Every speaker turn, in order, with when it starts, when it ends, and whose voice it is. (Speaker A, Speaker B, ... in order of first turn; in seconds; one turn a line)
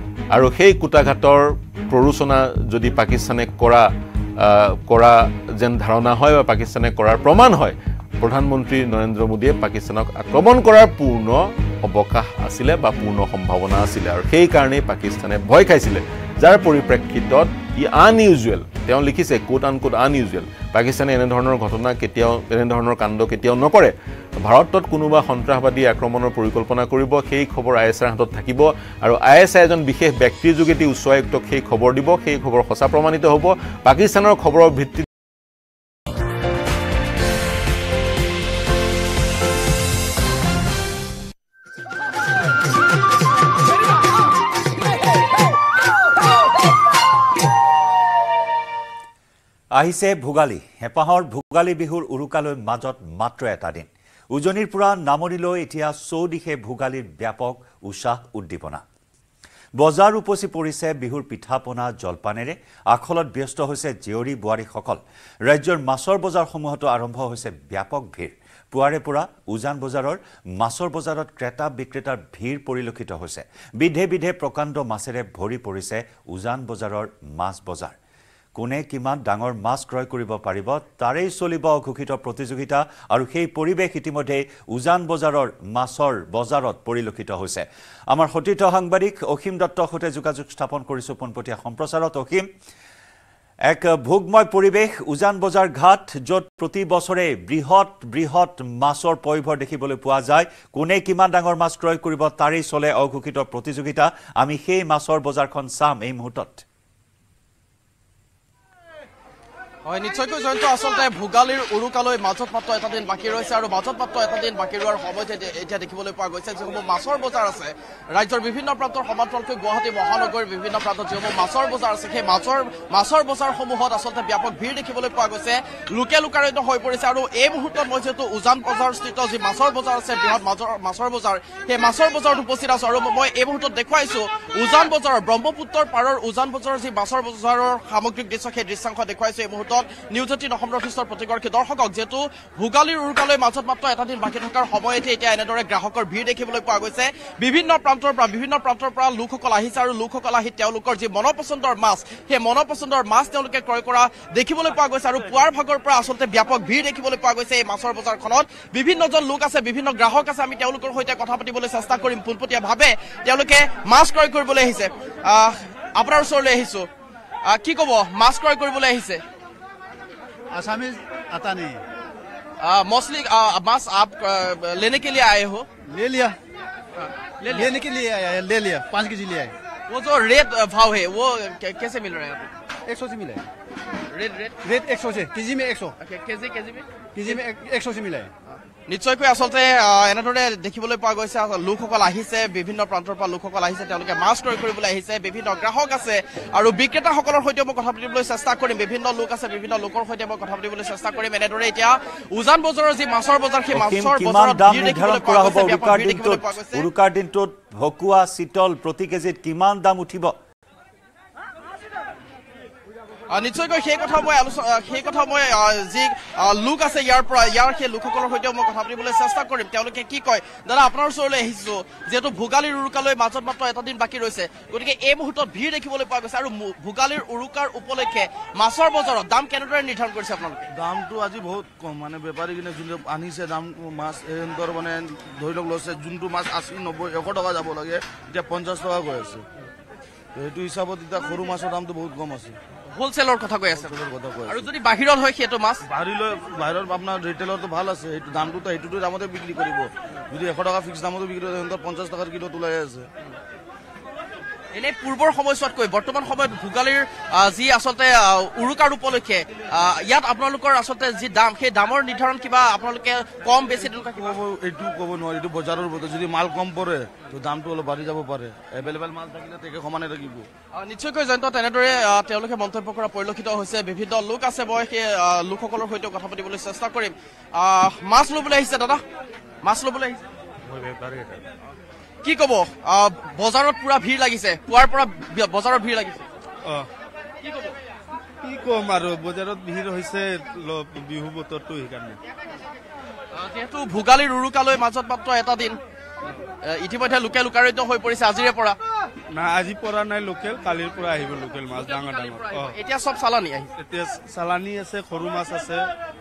Speaker A: 0.3-35.1
Speaker B: 49.8-58.8
Speaker B: 59.8-78.0
Speaker B: 78.6-92.5
Speaker B: 93.7-106.6
Speaker C: 109.8-166.9
Speaker C: 167.4-169.2
Speaker D: 170.5-171.8
Speaker C: 172.6-175.7
Speaker D: 175.9-176.3
Speaker C: 177.0-177.8
Speaker D: 177.4-179.5
Speaker C: 179.9-182.5
Speaker D: 182.9-183.4
Speaker C: 184.1-184.6
Speaker D: 184.6-185.9
Speaker C: 186.0-187.4
Speaker D: 187.2-188.3
Speaker C: 188.9-206.9
Speaker B: 203.7-210.4
Speaker C: 213.3-230.7
Speaker E: 230.7-239.4
Speaker E: 240.4-242.6
Speaker C: 242.9-243.9
Speaker E: 243.7-244.7
Speaker C: 244.5-245.8
Speaker E: 245.9-253.1
Speaker C: 254.7-264.3
Speaker E: 263.8-270.4
Speaker C: 270.7-279.0
Speaker C: 279.6-280.2
Speaker F: 280.6-281.4
Speaker C: 282.2-286.3
Speaker C: 287.4-287.7
Speaker F: 288.4-292.2
Speaker C: 293.4-295.8
Speaker C: 296.6-298.8
Speaker F: 299.4-302.7
Speaker C: 301.7-303.7
Speaker F: 303.8-305.9